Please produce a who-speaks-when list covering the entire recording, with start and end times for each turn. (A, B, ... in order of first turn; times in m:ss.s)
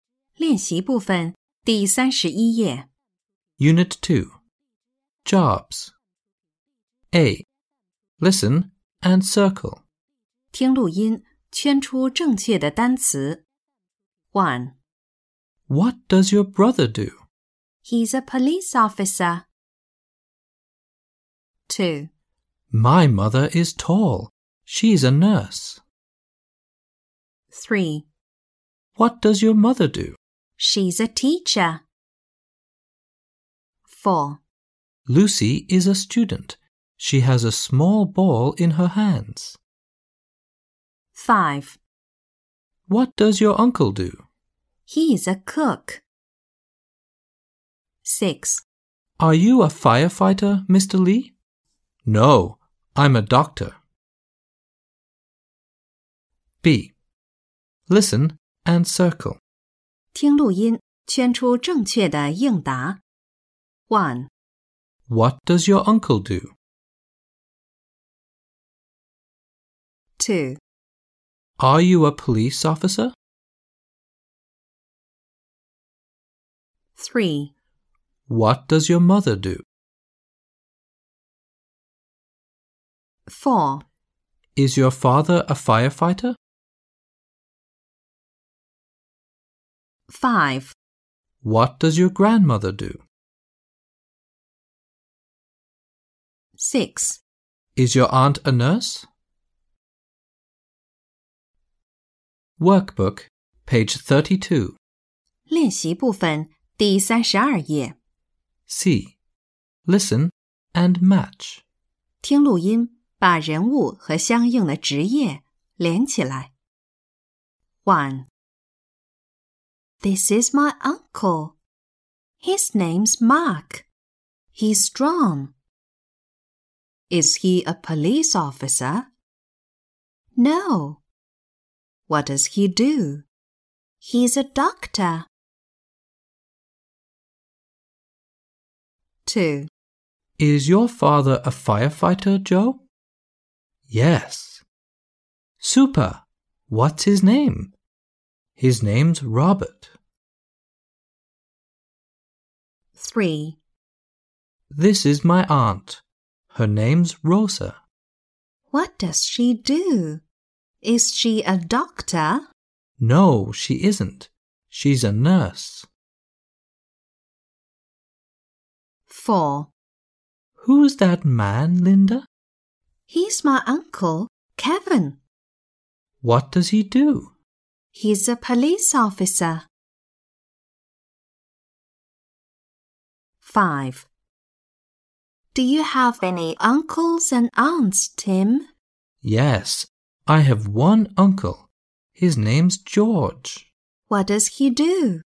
0:00.4-0:02.9 A
0:03.6-0:04.4 B
0:05.2-0:05.9 B
0:07.1-0:07.5 B
0:08.2-0:09.8 B
0:10.5-0:13.4 A
0:14.3-0:14.8 A
0:15.7-0:17.2 B
0:17.8-0:19.5 A
0:21.7-0:22.1 A
0:22.7-0:25.8 B
0:27.5-0:28.1 A
0:29.0-0:30.2 B
0:30.6-0:31.8 A
0:33.9-0:34.4 A
0:35.1-0:39.6 B
0:41.2-0:41.8 A
0:42.9-0:44.2 B
0:44.9-0:46.0 A
0:48.0-0:48.6 A
0:49.2-0:51.4 B
0:52.0-0:53.8 B
0:56.6-0:56.9 B
0:57.9-0:59.4 B
1:00.1-1:03.0 A
1:03.9-1:04.3 A
1:05.1-1:06.5 B
1:10.2-1:10.6 A
1:11.6-1:13.1 B
1:17.0-1:17.5 A
1:18.3-1:19.6 B
1:23.3-1:23.8 A
1:24.6-1:26.4 B
1:30.1-1:30.8 A
1:31.4-1:33.0 B
1:36.6-1:37.2 A
1:37.8-1:39.1 B
1:42.6-1:44.8 B
1:45.5-1:48.0 A
1:48.7-1:49.2 B
1:49.9-1:51.6 B
1:52.2-1:56.5 A
1:57.8-1:58.3 A
2:00.0-2:01.6 A
2:02.4-2:03.9 A
2:04.6-2:05.5 A
2:07.1-2:09.1 A
2:10.4-2:11.0 A
2:12.1-2:13.3 A
2:14.0-2:15.3 A
2:19.3-2:19.7 A
2:20.4-2:22.8 B
2:23.9-2:24.6 B
2:25.6-2:27.7 B
2:28.6-2:29.9 B
2:33.0-2:33.6 A
2:34.7-2:36.0 B
2:36.5-2:37.8 B
2:38.7-2:40.2 A
2:40.8-2:42.4 A
2:43.0-2:45.9 B
2:49.1-2:49.7 A
2:50.6-2:52.3 B
2:53.1-2:55.2 A
2:56.2-2:57.3 B
2:57.9-2:59.7 A
3:03.4-3:04.1 A
3:05.5-3:08.7 A
3:09.2-3:13.7 B
3:14.1-3:15.2 A